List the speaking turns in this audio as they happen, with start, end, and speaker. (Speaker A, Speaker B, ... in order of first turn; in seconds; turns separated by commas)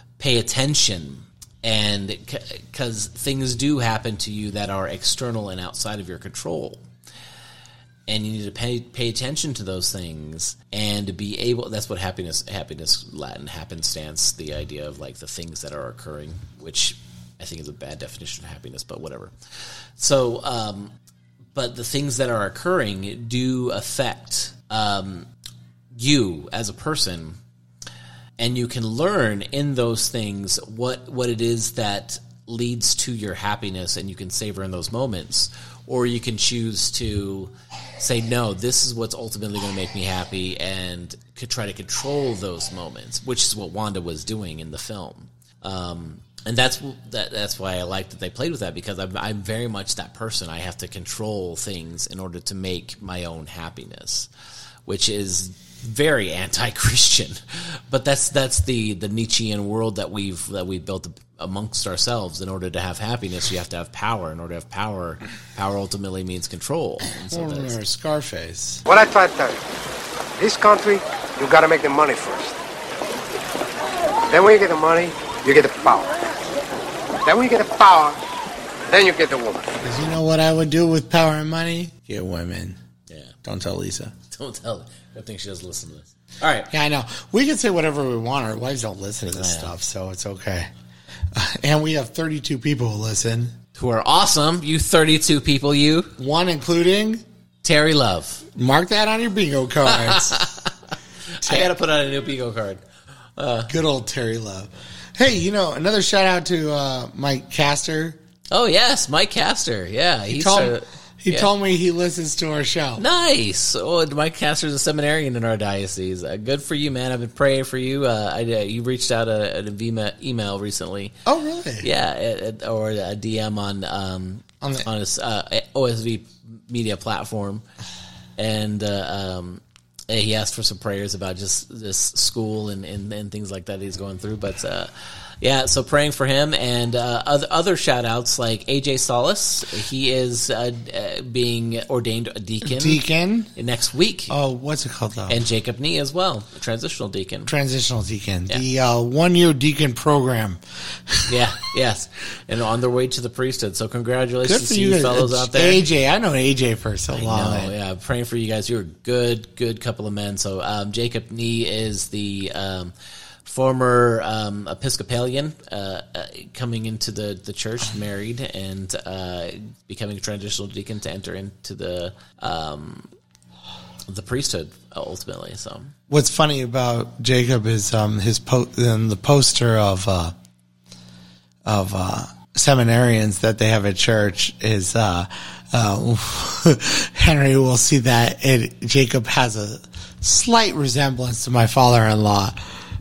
Speaker A: 0.2-6.9, Speaker A: 8.1-19.3, Speaker A: 20.0-20.9, Speaker A: 21.5-25.3, Speaker A: 25.9-27.4, Speaker A: 28.4-54.3, Speaker A: 54.9-67.8, Speaker B: 67.3-68.8, Speaker C: 68.9-69.6, Speaker C: 70.4-72.5, Speaker C: 74.3-76.2, Speaker C: 77.2-78.2, Speaker C: 78.9-79.7, Speaker B: 79.8-82.8, Speaker A: 83.1-83.3, Speaker B: 83.4-84.1, Speaker A: 84.3-86.7, Speaker B: 86.7-90.7, Speaker A: 89.3-89.7, Speaker B: 91.3-93.5, Speaker A: 93.7-96.1, Speaker B: 96.2-97.2, Speaker A: 97.6-98.4, Speaker B: 98.5-100.4, Speaker A: 99.9-100.7, Speaker A: 101.3-102.8, Speaker B: 101.4-101.7, Speaker A: 103.4-103.7, Speaker B: 103.7-108.2, Speaker A: 108.5-111.5, Speaker B: 110.3-113.0, Speaker A: 113.0-121.2, Speaker B: 121.2-121.9, Speaker A: 121.8-127.6, Speaker B: 124.6-124.9, Speaker A: 128.4-143.0, Speaker B: 142.6-143.5, Speaker A: 143.5-144.3, Speaker B: 144.3-145.4, Speaker A: 145.3-147.5, Speaker B: 147.4-151.3, Speaker A: 151.3-155.8, Speaker B: 154.4-157.7, Speaker A: 157.1-162.9, Speaker A: 163.4-173.1, Speaker A: 174.1-175.9, Speaker B: 176.1-180.3, Speaker B: 181.7-192.6